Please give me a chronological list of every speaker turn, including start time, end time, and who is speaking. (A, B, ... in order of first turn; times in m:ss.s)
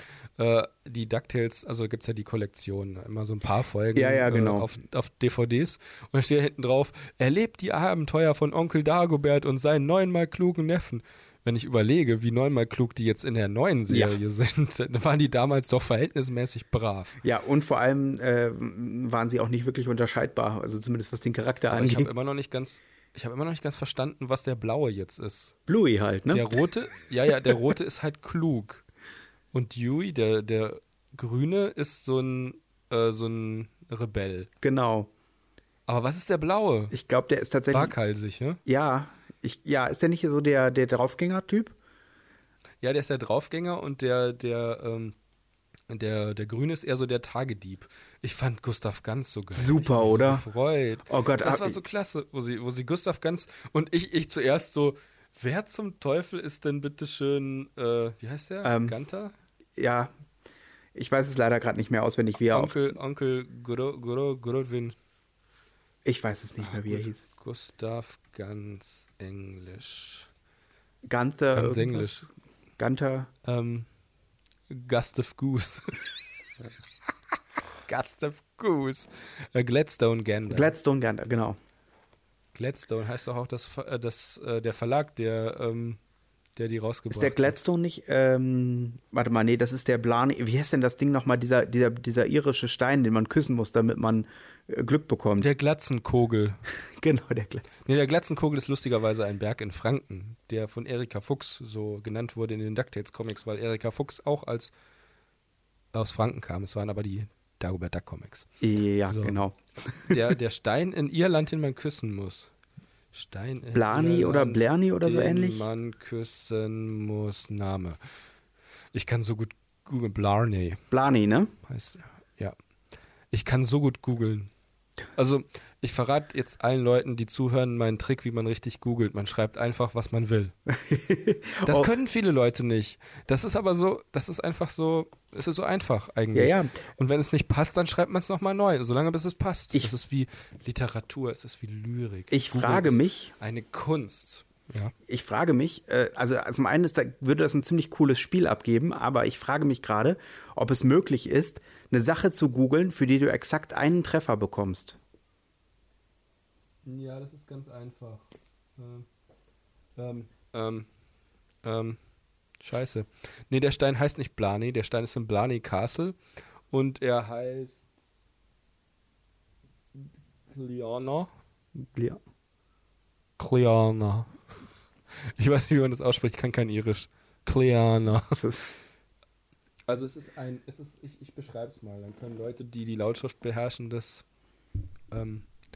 0:00.4-0:17.2 A
0:04.0-0:04.7 B
0:13.9-0:14.2 B
0:17.2-0:22.1 B
0:21.7-0:25.5 A
0:25.7-0:26.5 B
0:26.3-0:28.8 A
0:29.5-0:34.5 A
0:34.6-0:35.1 B
0:35.9-0:36.9 A
0:36.9-0:37.9 B
0:37.7-0:38.6 A
0:38.7-0:41.8 B
0:42.8-0:45.2 A
0:45.9-0:59.3 A
0:49.5-0:50.4 B
0:51.1-0:51.8 B
0:58.6-0:59.0 B
0:59.8-1:00.1 B
1:01.0-1:02.8 B
1:02.4-1:05.0 A
1:06.0-1:07.2 B
1:06.6-1:10.3 A
1:11.1-1:12.3 B
1:11.5-1:12.3 A
1:12.8-1:13.3 B
1:13.4-1:13.9 A
1:14.7-1:16.0 A
1:17.9-1:20.8 A
1:20.5-1:21.6 B
1:22.6-1:26.0 A
1:26.6-1:27.6 A
1:27.1-1:35.5 B
1:35.4-1:36.6 A
1:36.9-1:37.7 B
1:37.8-1:44.7 A
1:45.9-1:48.5 A
1:48.6-1:49.6 B
1:49.1-1:49.4 A
1:50.0-1:52.5 A
1:53.1-1:58.0 A
1:53.7-1:55.6 B
1:58.9-2:00.8 A
2:00.9-2:01.5 B
2:01.6-2:02.6 A
2:03.3-2:04.5 A
2:05.2-2:10.5 A
2:10.7-2:11.9 B
2:11.6-2:24.9 A
2:16.3-2:16.7 B
2:22.3-2:23.3 B
2:25.1-2:35.0 B
2:36.8-2:39.1 A
2:40.0-2:40.9 A
2:41.6-2:42.0 A
2:42.6-2:46.2 A
2:46.7-2:47.8 A
2:50.0-2:51.3 A
2:51.8-2:52.2 B
2:53.4-2:54.4 A
2:55.4-2:58.4 A
2:58.4-2:58.6 B
2:59.9-3:04.2 A
3:05.1-3:05.5 A